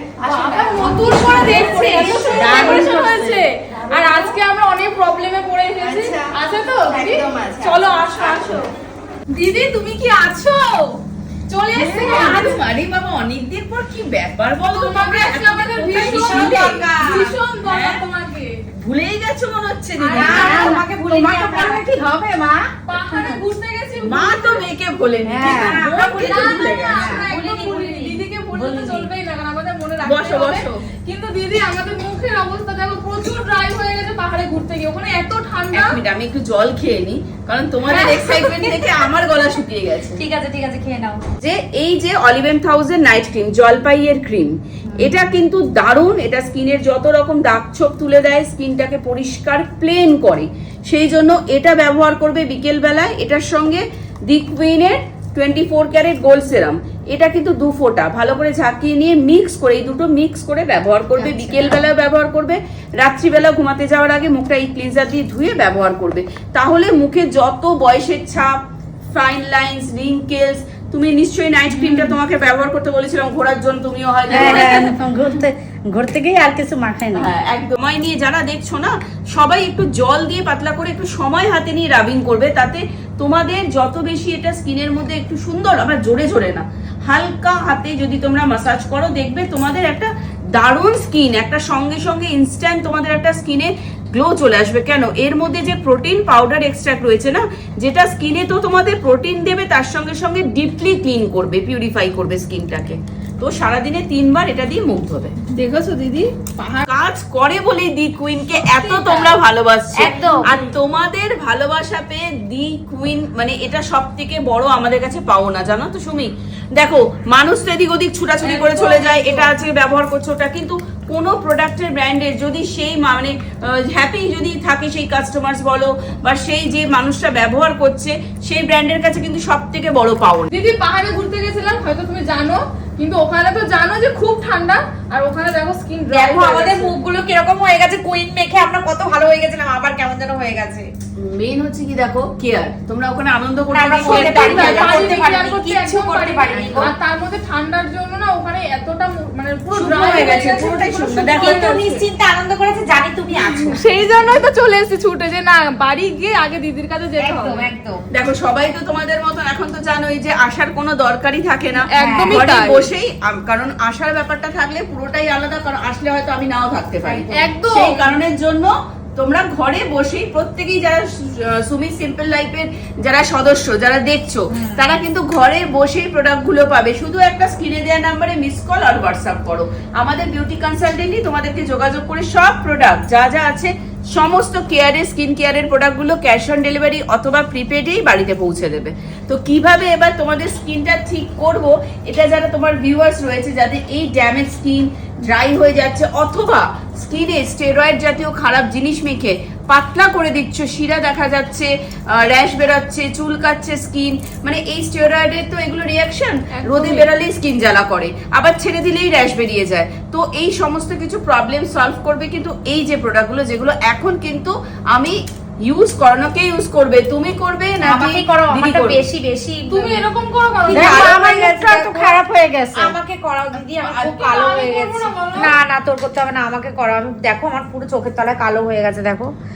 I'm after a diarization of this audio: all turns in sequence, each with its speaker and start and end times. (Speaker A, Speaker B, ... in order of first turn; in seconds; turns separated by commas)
Speaker A: 0.2-8.7, Speaker B: 0.3-3.1, Speaker C: 1.5-3.3, Speaker D: 2.4-2.9, Speaker D: 7.3-7.6, Speaker A: 9.3-12.6, Speaker D: 11.7-18.0, Speaker A: 14.6-18.6, Speaker B: 15.9-17.2, Speaker D: 18.8-20.7, Speaker A: 20.0-20.7, Speaker B: 20.1-21.9, Speaker C: 20.1-22.6, Speaker A: 22.9-24.6, Speaker D: 24.0-27.2, Speaker C: 25.3-25.8, Speaker B: 25.4-29.1, Speaker A: 26.1-35.9, Speaker D: 30.1-30.8, Speaker D: 35.7-40.2, Speaker B: 37.9-38.8, Speaker B: 40.1-41.2, Speaker D: 41.4-68.5, Speaker B: 61.2-61.8, Speaker D: 69.1-74.9, Speaker C: 74.3-77.3, Speaker A: 74.3-74.8, Speaker D: 77.1-105.3, Speaker A: 105.5-106.8, Speaker D: 106.9-130.5, Speaker B: 108.6-109.3, Speaker B: 110.0-110.5, Speaker A: 118.4-119.5, Speaker A: 130.5-136.9, Speaker B: 136.1-140.9, Speaker D: 141.2-145.2, Speaker B: 143.7-146.9, Speaker A: 144.0-152.0, Speaker D: 146.5-146.9, Speaker D: 149.7-151.8, Speaker B: 151.1-153.8, Speaker A: 153.4-157.7, Speaker B: 157.2-158.1, Speaker D: 158.1-219.1, Speaker A: 161.9-162.8, Speaker B: 162.0-162.7, Speaker A: 167.3-168.1, Speaker B: 174.5-174.8, Speaker A: 206.5-207.1, Speaker B: 217.8-220.1, Speaker A: 219.7-221.2, Speaker B: 220.6-222.2, Speaker C: 220.7-222.9, Speaker B: 222.7-229.3, Speaker A: 224.0-225.5